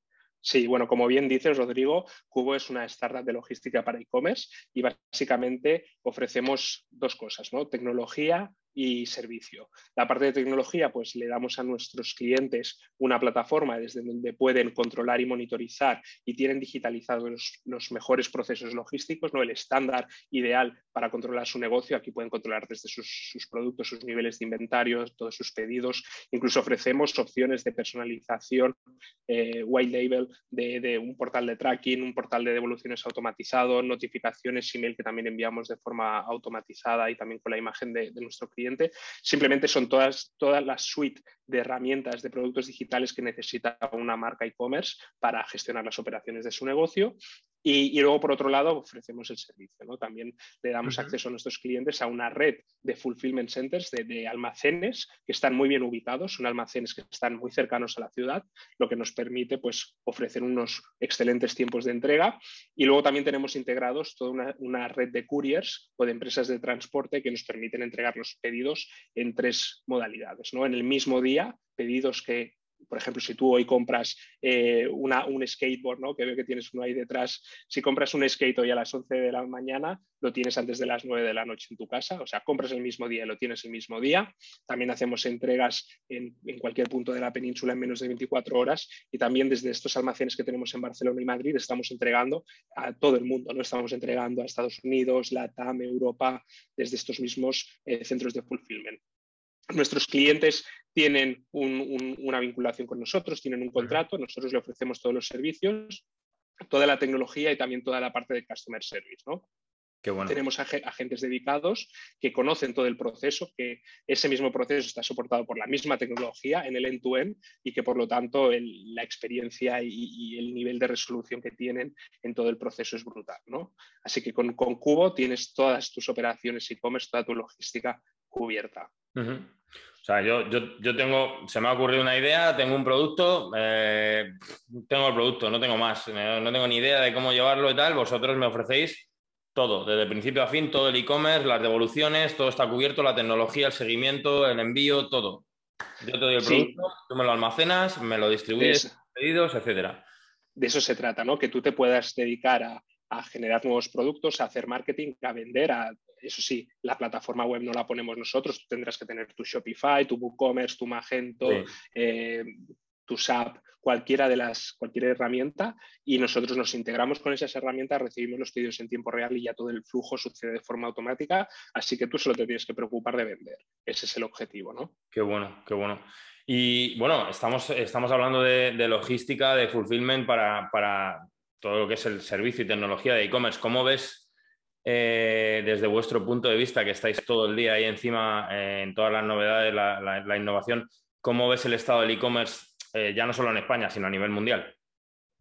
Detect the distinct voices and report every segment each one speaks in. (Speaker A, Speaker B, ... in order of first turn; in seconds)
Speaker A: 0.4-99.0, 99.7-106.0, 106.7-109.5, 110.2-128.9, 146.4-146.8, 148.6-148.9, 150.6-174.9
Speaker B: 50.9-51.1, 110.0-110.4, 129.2-145.5, 146.0-150.0, 161.4-161.7, 175.1-184.3, 184.8-194.8